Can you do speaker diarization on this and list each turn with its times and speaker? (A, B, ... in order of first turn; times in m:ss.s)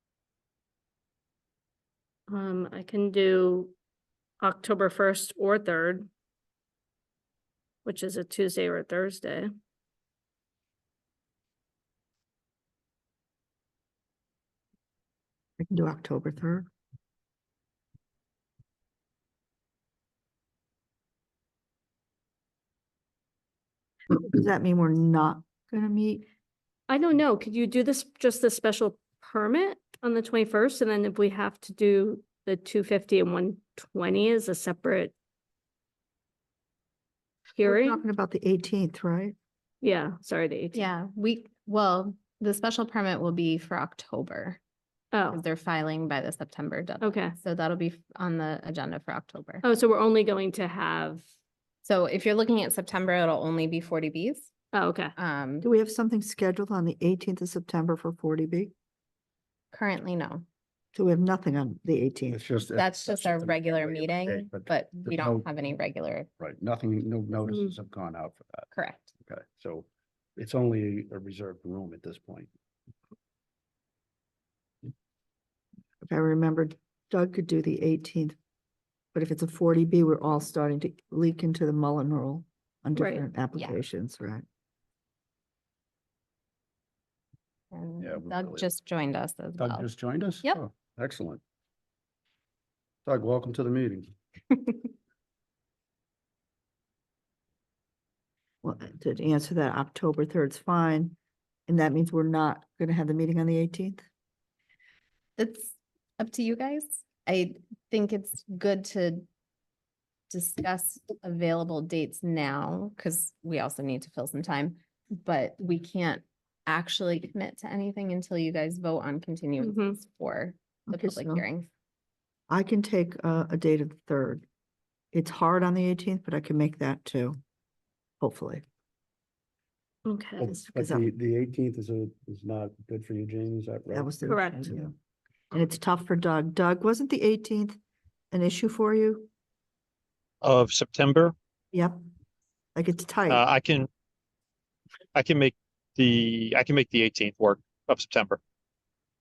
0:02.3-0:03.7 A
0:04.4-0:06.1 A
0:07.8-0:09.5 A
0:15.6-0:16.7 B
0:24.1-0:26.2 B
0:26.9-0:35.1 A
0:37.6-0:38.0 A
0:37.6-0:39.3 B
0:39.8-0:40.9 A
0:40.7-0:44.6 C
0:45.1-0:45.4 A
0:45.3-0:49.6 C
0:47.0-0:47.3 A
0:49.6-0:51.2 A
0:51.8-0:54.5 C
0:54.7-0:55.1 A
0:55.2-0:55.7 C
0:55.6-0:58.7 B
0:59.7-1:00.4 C
1:00.9-1:02.4 B
1:02.3-1:05.5 D
1:02.8-1:06.3 C
1:06.4-1:08.7 D
1:07.5-1:07.7 A
1:08.7-1:09.1 C
1:09.2-1:12.5 D
1:16.0-1:18.4 B
1:19.1-1:24.4 B
1:23.0-1:23.2 A
1:27.7-1:29.9 C
1:28.0-1:28.7 D
1:29.6-1:31.4 D
1:33.0-1:34.1 D
1:38.6-1:41.2 B
1:41.7-1:44.0 B
1:45.4-1:49.2 C
1:50.3-2:01.7 C
1:59.6-2:00.0 A
2:00.9-2:01.4 B
2:02.5-2:04.4 B
2:05.1-2:07.4 B
2:08.2-2:08.6 B
2:10.0-2:10.5 A
2:10.4-2:14.2 D
2:10.6-2:11.1 B
2:13.9-2:14.9 B
2:14.2-2:14.7 A
2:15.5-2:17.8 B
2:18.3-2:19.3 B
2:20.4-2:21.3 E
2:21.7-2:22.0 B
2:22.7-2:23.4 B
2:23.3-2:23.8 E
2:25.2-2:28.4 E